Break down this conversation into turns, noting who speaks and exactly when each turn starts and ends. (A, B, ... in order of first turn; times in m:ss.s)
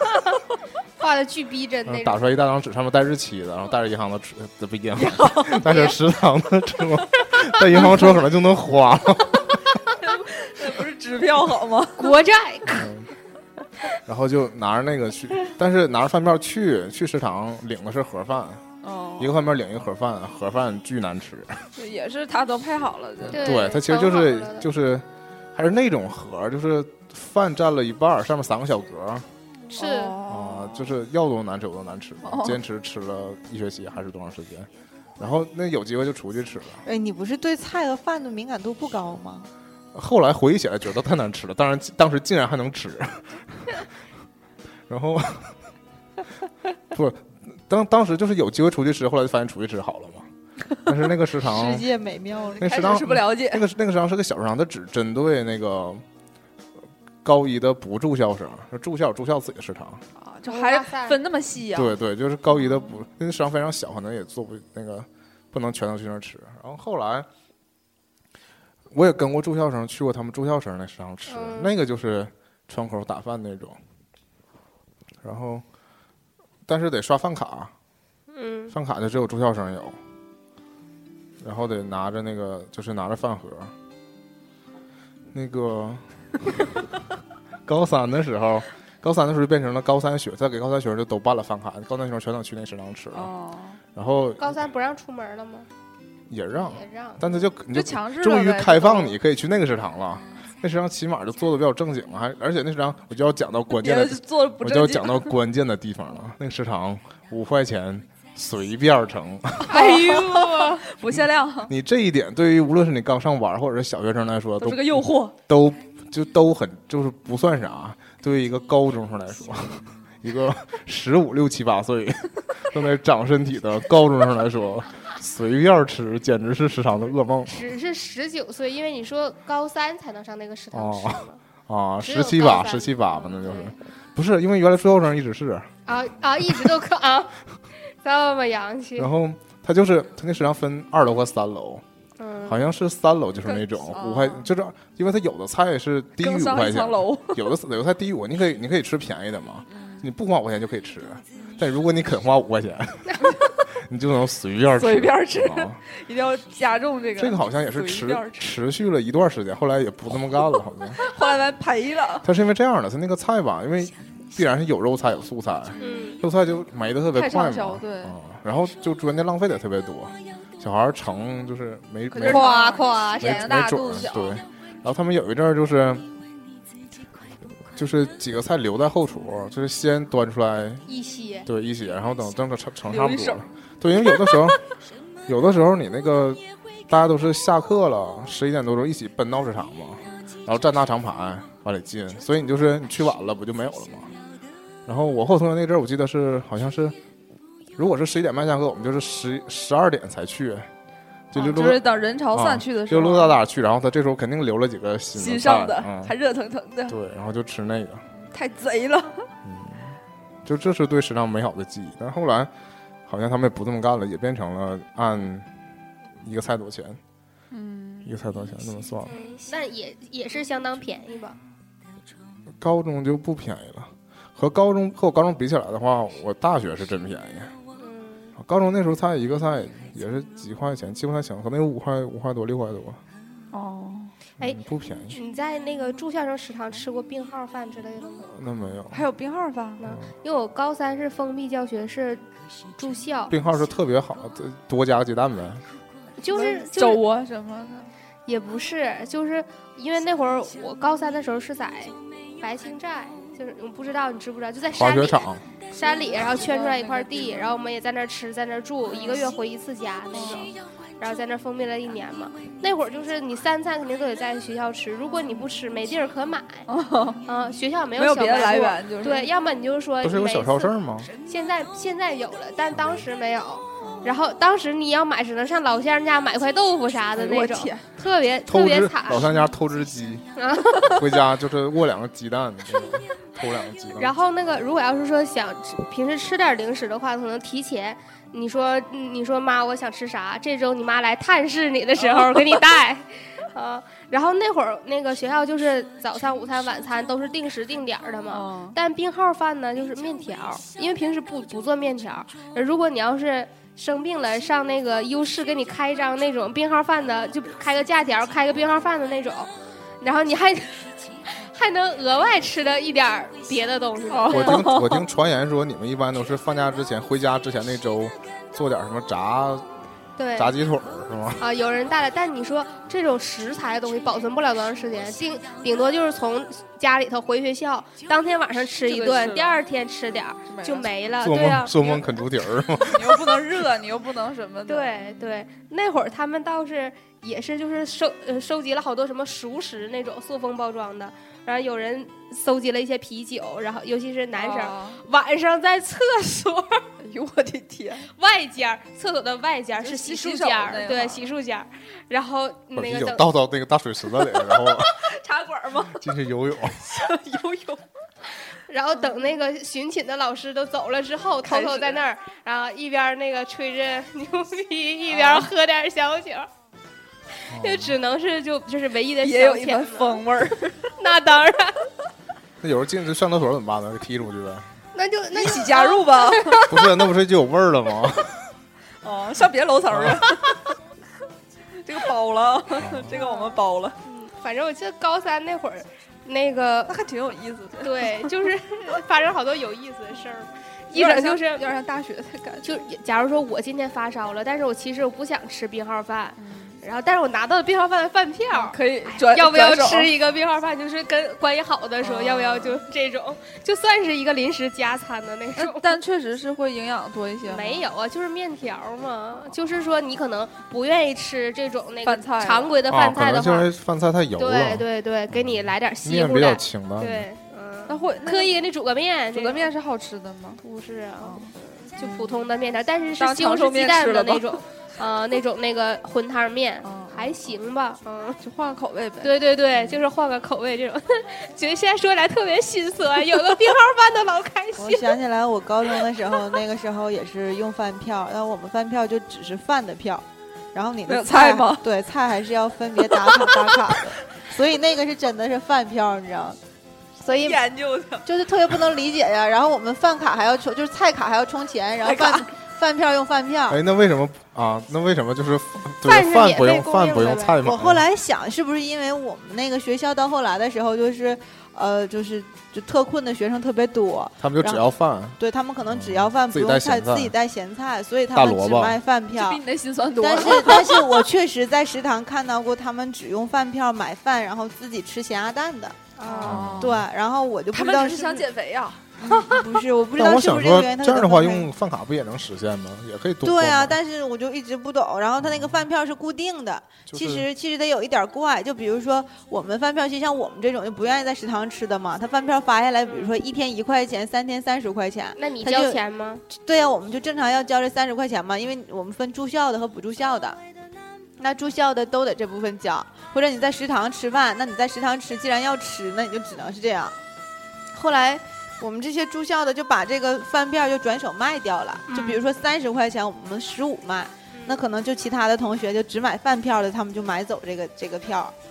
0:01.0-0:02.2 A
0:01.9-0:09.8 B
0:05.0-0:05.8 C
0:05.6-0:06.0 A
0:07.7-0:08.1 C
0:10.0-0:12.2 C
0:12.0-0:12.9 A
0:12.7-0:13.1 B
0:14.1-0:18.6 B
0:18.8-0:19.4 C
0:19.2-0:21.7 B
0:21.8-0:23.5 C
0:23.2-0:29.3 B
0:23.3-0:24.7 A
0:29.7-0:30.2 A
0:29.8-0:30.9 C
0:30.3-0:36.8 B
0:32.2-0:32.6 C
0:36.8-0:39.5 D
0:39.9-0:43.9 B
0:44.9-0:45.6 B
0:46.9-0:50.3 B
0:50.8-0:51.9 B
0:51.4-0:52.9 D
0:52.5-0:53.6 C
0:52.6-0:56.0 B
0:57.2-1:00.0 B
1:00.2-1:02.0 C
1:00.5-1:01.2 A
1:01.7-1:07.3 B
1:02.6-1:02.9 C
1:08.9-1:13.8 B
1:11.3-1:11.7 A
1:15.2-1:15.6 B
1:16.7-1:17.7 B
1:18.3-1:18.8 A
1:18.7-1:20.0 B
1:21.4-1:23.7 B
1:25.3-1:26.0 B
1:27.6-1:33.3 B
1:33.1-1:33.8 C
1:34.0-1:34.6 B
1:34.4-1:35.7 A
1:36.3-1:49.7 B
1:36.7-1:37.2 A
1:37.7-1:39.2 C
1:43.8-1:45.4 C
1:49.6-1:51.7 C
1:49.7-1:50.8 A
1:51.1-2:07.6 B
1:54.6-1:55.4 C
2:07.5-2:11.4 A
2:10.7-2:15.7 B
2:12.0-2:13.8 A
2:15.9-2:17.3 A
2:18.0-2:19.1 A
2:19.0-2:21.8 B
2:22.2-2:22.6 A
2:22.5-2:35.8 B
2:23.4-2:24.5 C
2:26.2-2:27.5 C
2:29.7-2:30.1 C
2:34.8-2:38.5 C
2:37.2-2:41.0 B
2:41.0-2:42.3 C
2:42.2-2:52.5 B
2:45.8-2:46.1 C
2:45.8-2:46.2 A
2:47.1-2:48.2 C
2:52.1-2:54.4 C
2:52.2-2:53.5 A
2:53.2-2:56.1 B
2:57.7-3:00.9 B
3:00.9-3:01.5 A
3:01.5-3:04.6 B
3:02.9-3:03.4 C
3:04.0-3:04.6 C
3:05.3-3:14.2 B
3:14.9-3:17.0 B
3:17.8-3:20.7 B
3:21.3-3:26.1 B
3:21.4-3:23.4 C
3:25.2-3:27.0 C
3:26.9-3:28.1 B
3:28.2-3:29.3 C
3:29.4-3:32.5 B
3:33.1-3:35.5 B
3:36.2-3:37.0 B
3:37.5-3:38.2 C
3:38.0-3:39.2 B
3:39.1-3:41.4 A
3:42.6-3:47.5 B
3:47.8-3:48.3 A
3:48.4-3:53.0 B
3:53.5-3:54.1 C
3:54.4-3:55.2 B
3:55.1-3:58.3 A
3:58.3-3:59.0 B
3:58.9-3:59.8 C
3:59.8-4:02.2 A
4:02.8-4:03.3 A
4:03.3-4:05.6 B
4:06.2-4:07.0 A
4:06.3-4:07.9 C
4:08.3-4:26.7 A
4:14.7-4:15.4 B
4:15.8-4:17.6 C
4:20.1-4:20.6 C
4:26.7-4:27.3 C
4:27.2-4:39.3 A
4:28.0-4:29.3 C
4:30.0-4:31.1 B
4:33.8-4:34.2 C
4:37.2-4:37.8 C
4:38.5-4:40.2 B
4:40.4-4:41.0 A
4:40.9-4:44.1 B
4:44.0-5:14.7 A
4:52.0-4:52.6 C
4:58.3-4:58.8 C
5:14.1-5:15.1 C
5:14.3-5:19.7 B
5:20.2-5:20.6 A
5:20.4-5:21.4 B
5:21.4-5:32.1 A
5:28.8-5:29.6 C
5:30.5-5:30.9 C
5:31.2-5:33.2 B
5:32.8-5:35.0 C
5:34.7-5:46.8 A
5:44.4-5:45.0 C
5:47.0-5:48.1 C
5:48.1-5:53.3 A
5:49.8-5:51.3 C
5:52.7-5:55.0 B
5:55.0-5:56.1 C
5:56.0-5:56.8 B
5:56.9-5:57.8 C
5:58.7-6:06.5 A
5:59.0-5:59.2 C
6:01.4-6:02.0 C
6:05.1-6:05.5 C
6:07.5-6:10.2 A
6:07.5-6:08.0 B
6:09.2-6:10.9 C
6:11.0-6:11.8 A
6:12.6-6:14.7 B
6:15.0-6:16.6 A
6:15.3-6:17.0 C
6:16.7-6:18.3 B
6:19.0-6:20.6 C
6:19.9-6:20.2 B
6:21.8-6:24.0 C
6:22.8-6:23.1 B
6:23.2-6:27.0 A
6:26.9-6:28.5 C
6:27.8-6:31.6 A
6:30.9-6:32.7 C
6:32.6-6:46.0 A
6:36.4-6:36.8 C
6:38.5-6:40.1 C
6:42.0-6:42.8 C
6:45.6-6:47.9 C
6:47.5-6:53.7 A
6:52.0-6:52.8 C
6:52.9-6:57.3 B
6:54.4-6:59.7 A
6:57.9-6:58.7 C
6:59.3-7:00.6 C
7:00.6-7:08.4 A
7:01.2-7:02.4 C
7:03.2-7:04.6 C
7:06.8-7:07.4 C
7:08.4-7:10.0 C
7:09.2-7:15.2 A
7:14.8-7:26.6 D
7:21.1-7:21.8 C
7:23.0-7:24.0 C
7:27.2-7:27.6 D
7:27.3-7:28.3 C
7:28.3-7:33.8 D
7:32.0-7:32.5 C
7:33.7-7:38.0 B
7:36.0-7:37.6 A
7:37.6-7:44.8 D
7:44.4-7:47.3 B
7:45.4-7:49.6 D
7:48.3-7:49.0 B
7:49.3-7:51.3 C
7:50.2-7:56.0 D
7:56.2-7:56.6 A
7:56.2-7:57.1 C
7:56.4-7:57.1 B
7:56.8-7:58.5 D
7:57.7-7:59.0 C
7:59.2-8:01.7 D
8:00.2-8:04.0 B
8:03.4-8:20.6 D
8:05.4-8:05.8 B
8:07.1-8:07.5 B
8:15.4-8:16.4 A
8:21.4-8:27.2 D
8:27.9-8:38.6 D
8:32.1-8:32.4 A
8:34.5-8:34.8 A